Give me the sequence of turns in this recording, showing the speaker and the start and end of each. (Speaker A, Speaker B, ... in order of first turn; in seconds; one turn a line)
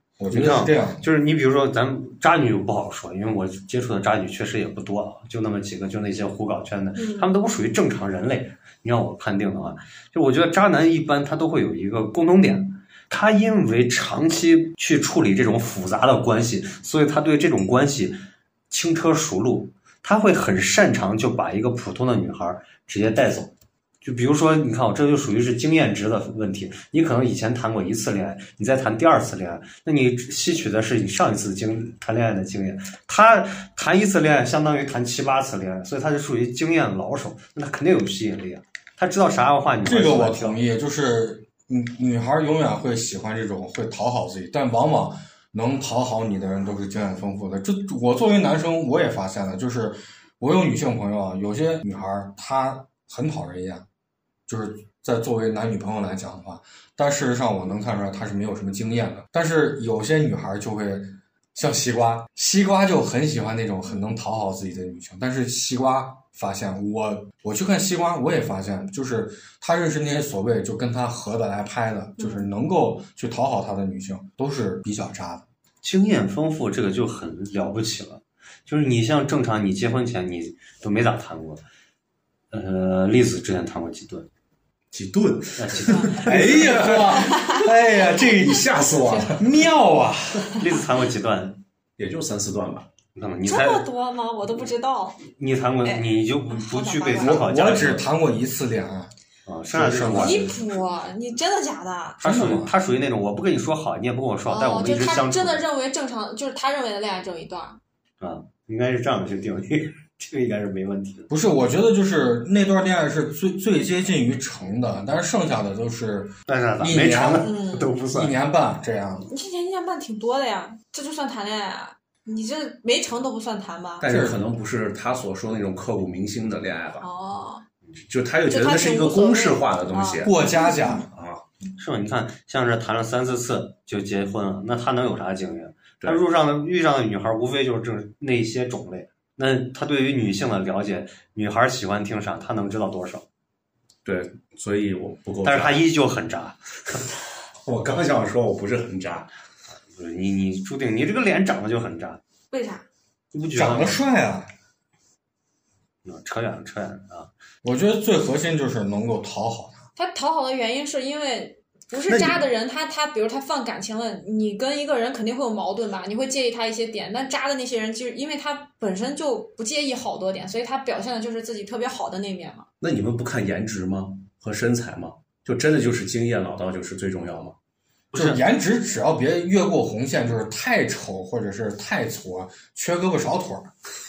Speaker A: 0.2-1.1
Speaker B: 0.3-18.2
Speaker C: 7.0-7.3
Speaker B: 18.7-23.5
Speaker B: 24.0-40.6
Speaker A: 39.9-53.9
Speaker A: 54.5-75.5
Speaker C: 72.2-72.5
Speaker B: 75.8-81.6
Speaker B: 82.5-84.3
Speaker D: 84.9-89.5
Speaker B: 85.6-86.8
Speaker C: 85.9-86.3
Speaker A: 86.2-87.5
Speaker C: 86.9-87.7
Speaker A: 89.3-90.7
Speaker B: 90.6-91.6
Speaker D: 92.0-92.9
Speaker B: 93.2-93.9
Speaker C: 93.5-95.2
Speaker B: 95.3-98.0
Speaker C: 95.8-97.5
Speaker A: 97.2-99.1
Speaker B: 99.5-100.5
Speaker A: 99.7-100.6
Speaker C: 100.1-102.2
Speaker B: 102.2-105.6
Speaker A: 102.2-102.7
Speaker C: 104.5-107.8
Speaker B: 108.2-111.3
Speaker A: 111.3-117.6
Speaker B: 116.5-118.3
Speaker C: 117.4-117.9
Speaker A: 118.1-119.3
Speaker C: 119.3-124.1
Speaker D: 124.0-127.1
Speaker A: 124.0-124.5
Speaker C: 127.0-127.6
Speaker D: 128.0-130.4
Speaker C: 128.5-131.0
Speaker A: 130.2-131.1
Speaker D: 131.1-131.4
Speaker B: 131.8-143.2
Speaker D: 144.1-145.9
Speaker B: 145.4-147.1
Speaker D: 147.6-149.3
Speaker B: 149.9-152.2
Speaker C: 152.5-152.8
Speaker B: 153.3-154.0
Speaker A: 153.5-154.5
Speaker B: 156.1-157.3
Speaker A: 157.6-159.9
Speaker C: 160.0-172.7
Speaker D: 162.1-162.4
Speaker D: 172.8-177.6
Speaker B: 178.1-178.4
Speaker A: 178.1-183.7